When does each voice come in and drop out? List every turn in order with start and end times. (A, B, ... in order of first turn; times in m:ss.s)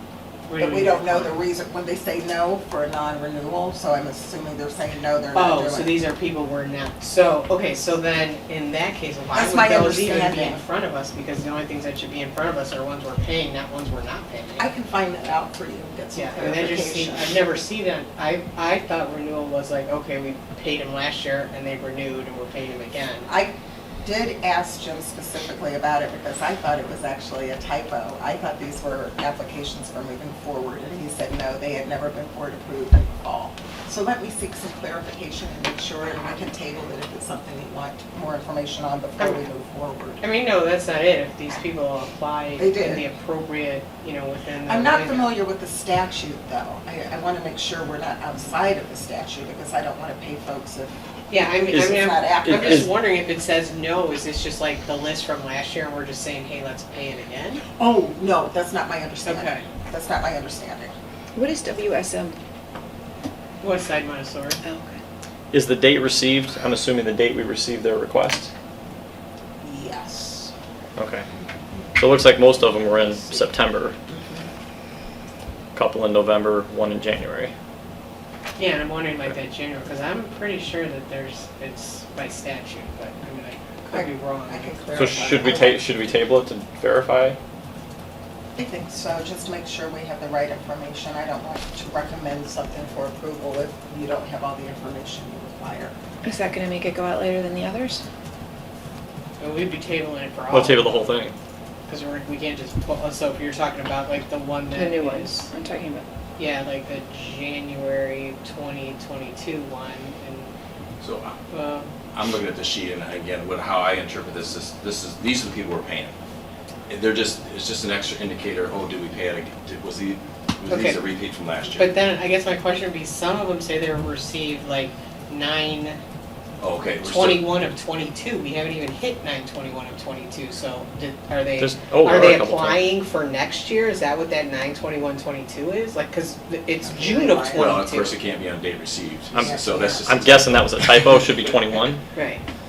0:00.5-0:01.4 A
0:00.6-0:06.0 B
0:05.3-0:14.7 A
0:09.3-0:10.6 B
0:14.6-0:17.4 B
0:16.1-0:23.3 A
0:23.3-0:40.2 B
0:40.2-0:45.4 A
0:42.6-0:43.0 B
0:44.6-0:52.9 B
0:51.3-0:57.6 A
0:51.7-0:52.9 C
0:57.8-1:00.9 B
0:59.2-0:59.6 A
1:01.3-1:02.4 D
1:03.6-1:04.6 A
1:04.6-1:05.0 D
1:05.5-1:08.5 C
1:09.6-1:10.5 B
1:11.0-1:11.2 C
1:12.0-1:14.0 C
1:12.9-1:13.6 B
1:14.1-1:14.5 B
1:15.7-1:17.5 C
1:18.6-1:25.7 A
1:23.9-1:26.1 B
1:24.9-1:27.4 C
1:28.5-1:35.9 B
1:36.2-1:38.0 D
1:39.4-1:41.1 A
1:40.5-1:41.3 C
1:41.9-1:45.4 A
1:44.7-1:46.0 D
1:46.4-1:50.5 A
1:51.0-1:51.4 E
1:51.5-1:51.9 A
1:52.1-1:56.1 E
1:56.9-2:02.0 E
2:00.7-2:01.0 A
2:01.7-2:06.0 A
2:06.6-2:07.5 E
2:07.0-2:18.2 A
2:11.6-2:12.8 C
2:16.8-2:17.8 B
2:17.5-2:20.4 E
2:19.3-2:20.5 B
2:19.4-2:22.0 C
2:22.1-2:22.4 A